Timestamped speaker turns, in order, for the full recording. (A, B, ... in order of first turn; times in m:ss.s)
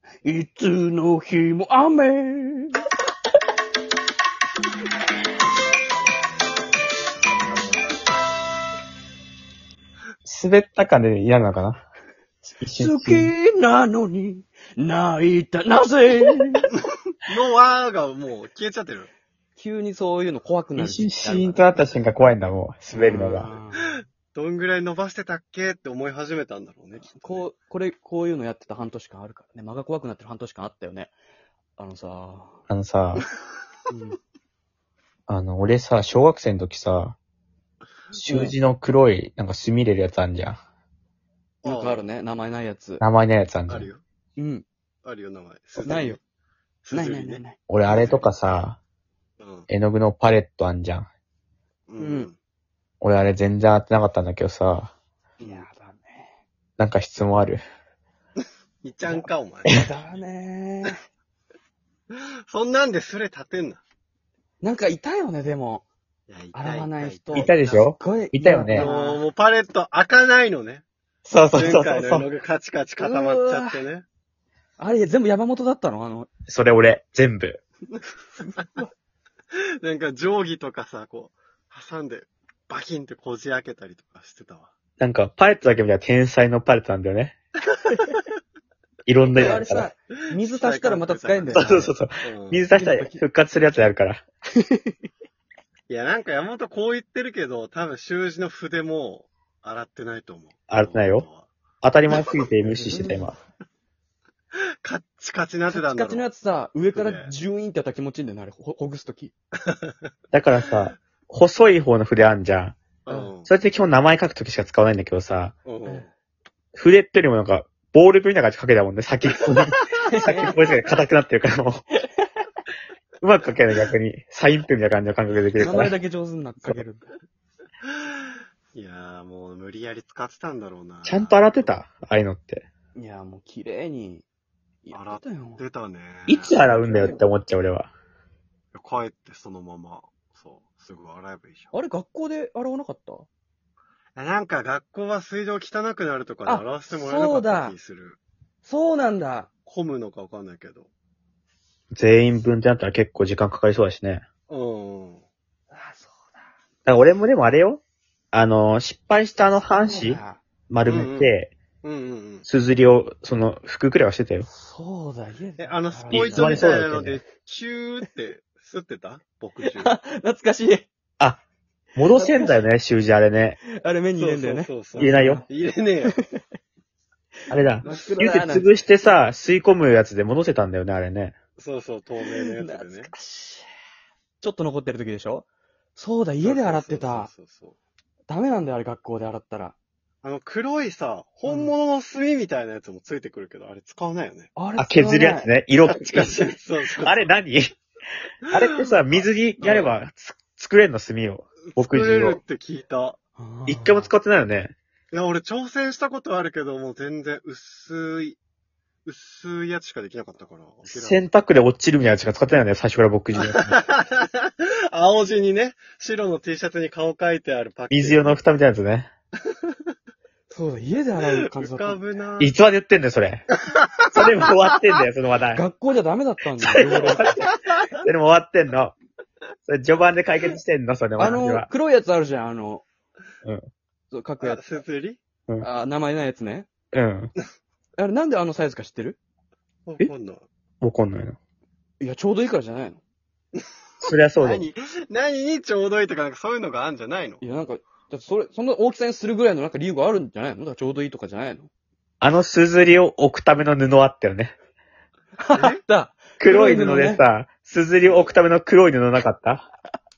0:00.2-0:02.8 A
0:10.2-0:11.8 B
0:12.6-0:13.3 B
0:12.8-0:16.7 A
0:16.7-0:19.1 C
0:19.6-0:21.8 A
0:20.8-0:23.5 B
0:22.9-0:23.9 A
0:22.9-0:27.5 C
0:27.1-0:31.1 A
0:31.8-0:32.6 A
0:32.7-0:33.2 B
0:33.9-0:34.2 A
0:35.3-0:37.2 B
0:38.2-0:40.6 B
0:38.2-0:38.6 A
0:41.6-0:42.1 C
0:41.6-0:43.0 A
0:43.0-0:43.9 B
0:43.7-0:44.0 C
0:44.4-0:44.7 A
0:45.0-0:46.2 C
0:45.8-0:46.2 A
0:46.8-0:48.3 C
0:46.9-0:47.6 A
0:47.7-0:48.8 B
0:49.4-0:49.7 C
0:49.7-0:51.1 B
0:51.9-0:52.4 C
0:52.0-0:52.3 A
0:53.0-0:54.9 B
0:55.4-0:55.7 C
0:55.4-0:56.3 A
0:56.8-0:57.6 B
0:58.8-0:59.8 C
0:59.0-1:01.0 A
1:02.1-1:03.8 C
1:04.6-1:05.8 A
1:06.3-1:07.5 C
1:06.5-1:09.2 A
1:07.3-1:08.9 B
1:08.7-1:10.8 C
1:11.2-1:12.2 B
1:11.5-1:14.0 C
1:13.0-1:13.8 A
1:14.8-1:16.3 A
1:16.5-1:17.6 B
1:18.4-1:18.9 A
1:19.8-1:24.7 C
1:25.0-1:27.4 B
1:29.0-1:29.9 B
1:29.3-1:31.9 A
1:30.4-1:32.7 C
1:31.5-1:34.2 B
1:32.7-1:33.2 A
1:34.6-1:34.9 A
1:35.9-1:41.5 C
1:40.7-1:41.3 B
1:41.8-1:43.4 B
1:42.1-1:43.2 C
1:42.8-1:43.3 A
1:44.8-1:46.3 C
1:45.7-1:49.3 A
1:46.9-1:47.3 C
1:49.6-1:49.9 C
1:50.3-1:52.8 B
1:53.0-1:53.5 C
1:53.4-1:55.6 B
1:55.6-1:56.1 C
1:56.7-2:01.8 B
1:59.5-1:59.9 C
2:00.0-2:00.5 A
2:03.2-2:05.9 B
2:05.6-2:07.1 A
2:08.7-2:11.7 C
2:11.0-2:12.6 B
2:13.0-2:14.2 A
2:14.8-2:15.6 A
2:14.9-2:16.6 C
2:16.3-2:17.9 B
2:16.6-2:17.2 A
2:18.7-2:21.7 C
2:21.7-2:23.3 A
2:24.2-2:28.2 C
2:26.4-2:27.8 A
2:28.6-2:29.5 A
2:29.7-2:30.9 C
2:31.9-2:34.2 B
2:34.5-2:35.2 C
2:35.7-2:36.3 A
2:36.8-2:37.8 B
2:38.3-2:41.5 B
2:39.7-2:40.4 A
2:40.8-2:42.4 C
2:42.4-2:44.5 B
2:44.5-2:46.7 A
2:45.6-2:50.0 C
2:46.1-2:47.2 B
2:49.7-2:50.9 A
2:52.0-2:53.6 B
2:52.1-2:52.6 A
2:53.8-2:55.4 A
2:54.2-2:56.1 C
2:55.0-2:55.4 B
2:57.5-3:01.4 B
2:57.8-2:58.7 A
3:01.6-3:03.1 C
3:02.2-3:03.7 A
3:04.4-3:07.3 A
3:06.4-3:07.8 C
3:08.3-3:09.8 A
3:10.2-3:14.5 C
3:11.5-3:11.7 A
3:14.6-3:15.5 A
3:14.8-3:17.8 B
3:15.9-3:17.3 C
3:18.5-3:22.4 B
3:18.5-3:19.9 C
3:21.7-3:23.2 C
3:23.4-3:24.1 A
3:23.7-3:24.8 B
3:25.1-3:28.4 C
3:29.0-3:31.2 C
3:30.9-3:33.8 B
3:33.4-3:38.4 C
3:37.9-3:39.1 B
3:40.5-3:42.0 A
3:41.5-3:42.5 C
3:42.4-3:43.5 B
3:43.8-3:44.5 C
3:44.1-3:45.6 B
3:45.5-3:47.4 A
3:46.6-3:49.0 B
3:47.1-3:47.8 C
3:49.7-3:51.7 B
3:51.2-3:52.8 A
3:54.1-3:54.6 A
3:54.4-3:55.2 C
3:55.6-3:56.7 A
3:56.9-3:57.3 B
3:58.0-3:59.2 A
3:59.8-4:00.4 C
4:00.8-4:01.4 B
4:02.0-4:03.0 A
4:04.0-4:04.6 B
4:04.4-4:07.4 C
4:07.4-4:11.7 A
4:12.2-4:14.6 B
4:15.4-4:17.2 A
4:15.5-4:15.8 C
4:16.4-4:19.7 B
4:18.1-4:18.3 C